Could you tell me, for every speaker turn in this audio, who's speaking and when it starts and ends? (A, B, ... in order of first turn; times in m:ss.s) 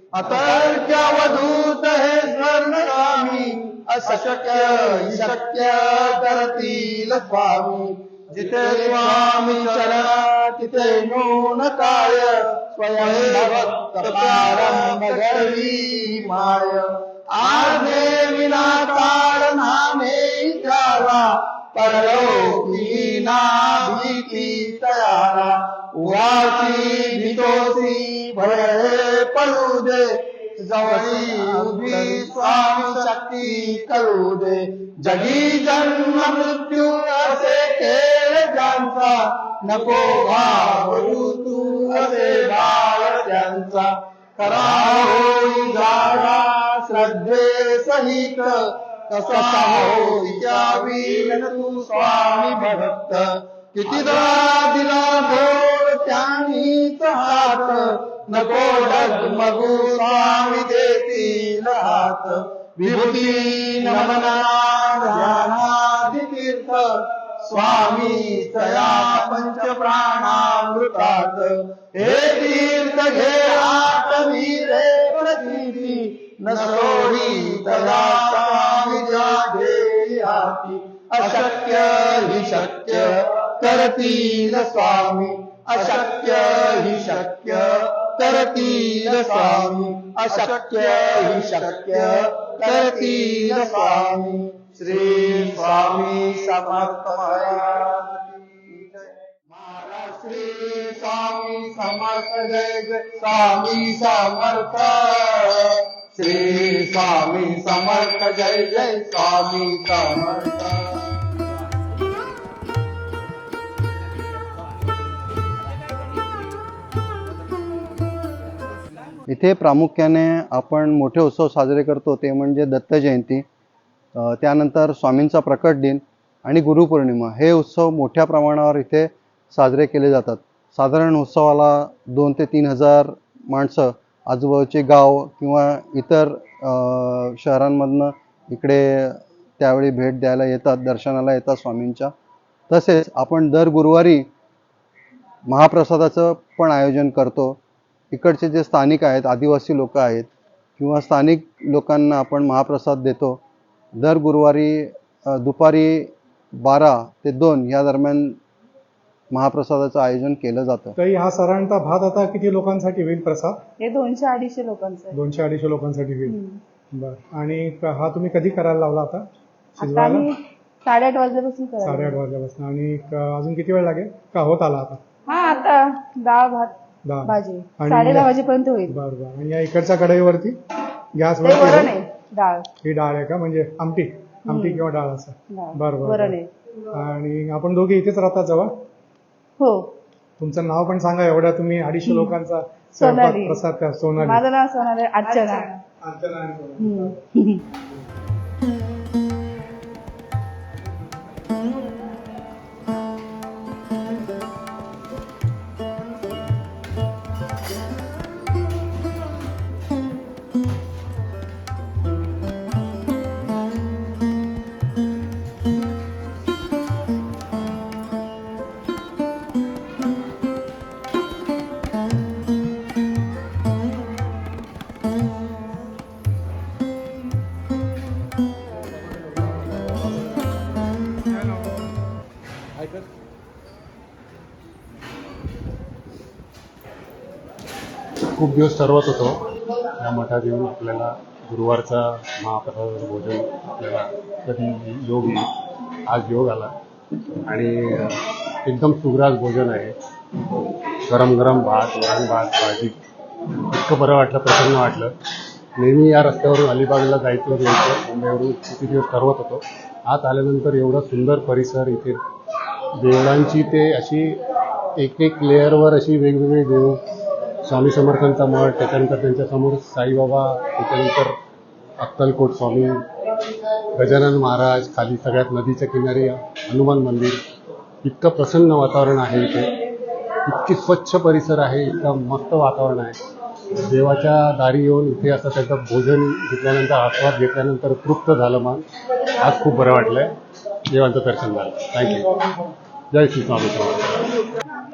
0:00.2-0:48.6 A
0:49.1-1:38.4 A
1:35.1-1:35.8 B
1:39.5-1:51.0 A
1:59.3-2:03.5 B
2:04.2-2:22.1 B
2:22.7-2:24.2 B
2:25.5-2:27.6 B
2:28.1-2:33.4 B
2:34.0-2:38.4 B
2:39.3-2:41.0 B
2:41.0-2:43.6 C
2:43.8-2:45.2 D
2:45.1-2:46.4 C
2:46.3-2:46.6 D
2:46.9-2:49.3 C
2:49.8-2:50.3 C
2:49.8-2:52.2 D
2:51.8-2:55.0 C
2:55.3-2:59.0 D
2:57.1-3:00.6 C
3:01.2-3:02.0 C
3:01.4-3:02.7 D
3:02.8-3:06.4 C
3:04.5-3:04.8 D
3:05.5-3:06.5 D
3:06.9-3:08.7 C
3:09.6-3:09.9 D
3:10.4-3:14.4 C
3:13.0-3:13.6 D
3:14.2-3:15.8 D
3:15.4-3:17.2 C
3:16.8-3:17.6 D
3:58.4-4:05.5 E
4:06.1-4:06.8 E
4:07.5-4:10.0 E
4:11.1-4:13.0 E
4:13.6-4:15.2 E
4:15.8-4:22.2 E
4:23.0-4:24.4 E
4:25.0-4:27.0 E
4:27.7-4:31.4 E
4:32.0-4:33.1 E
4:34.0-4:37.4 E
4:38.0-4:39.8 E
4:40.4-4:43.2 E
4:43.7-4:48.8 E
4:49.4-4:50.3 E
4:50.9-4:52.5 E
4:53.1-4:54.4 E